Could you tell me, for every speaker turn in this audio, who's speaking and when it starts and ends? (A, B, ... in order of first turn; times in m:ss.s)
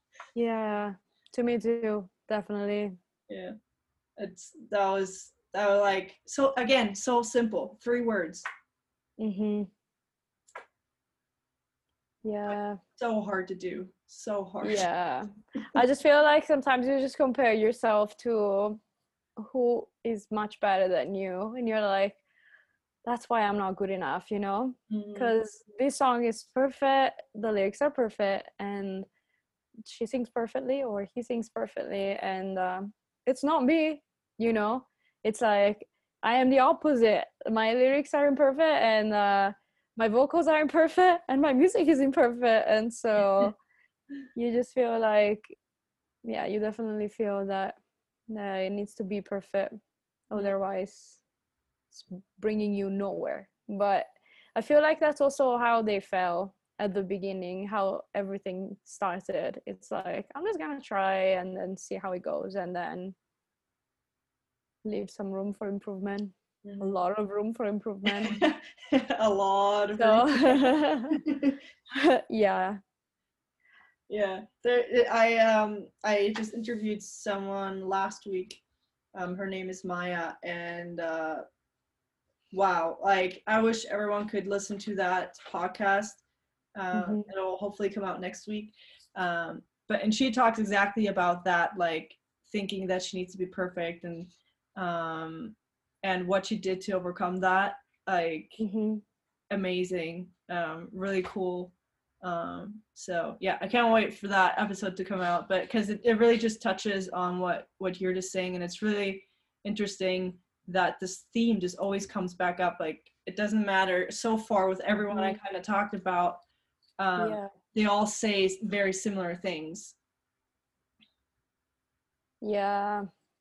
0:00.4-0:03.0 A
0:03.3-0:03.6 B
0:04.2-0:08.5 B
0:09.2-0:09.7 A
0:12.2-0:12.8 A
0:12.5-0:14.9 B
0:14.6-0:18.8 A
0:19.4-0:22.2 A
0:23.0-0:29.1 A
0:24.9-0:25.4 B
0:29.8-0:43.6 A
0:44.4-0:45.6 A
0:46.2-0:47.8 A
0:48.3-0:49.8 A
0:50.3-0:51.2 A
0:51.9-1:03.2 A
1:04.8-1:08.4 A
1:06.6-1:06.9 B
1:08.1-1:11.6 B
1:10.0-1:11.2 A
1:11.9-1:12.8 A
1:14.1-1:18.6 B
1:19.2-1:21.4 B
1:22.5-1:26.2 B
1:26.8-1:38.6 B
1:26.9-1:27.3 A
1:38.6-1:39.0 A
1:39.5-1:56.4 B
1:55.1-1:55.4 A
1:57.0-2:00.0 B
1:57.2-1:57.5 A
2:02.4-2:03.1 A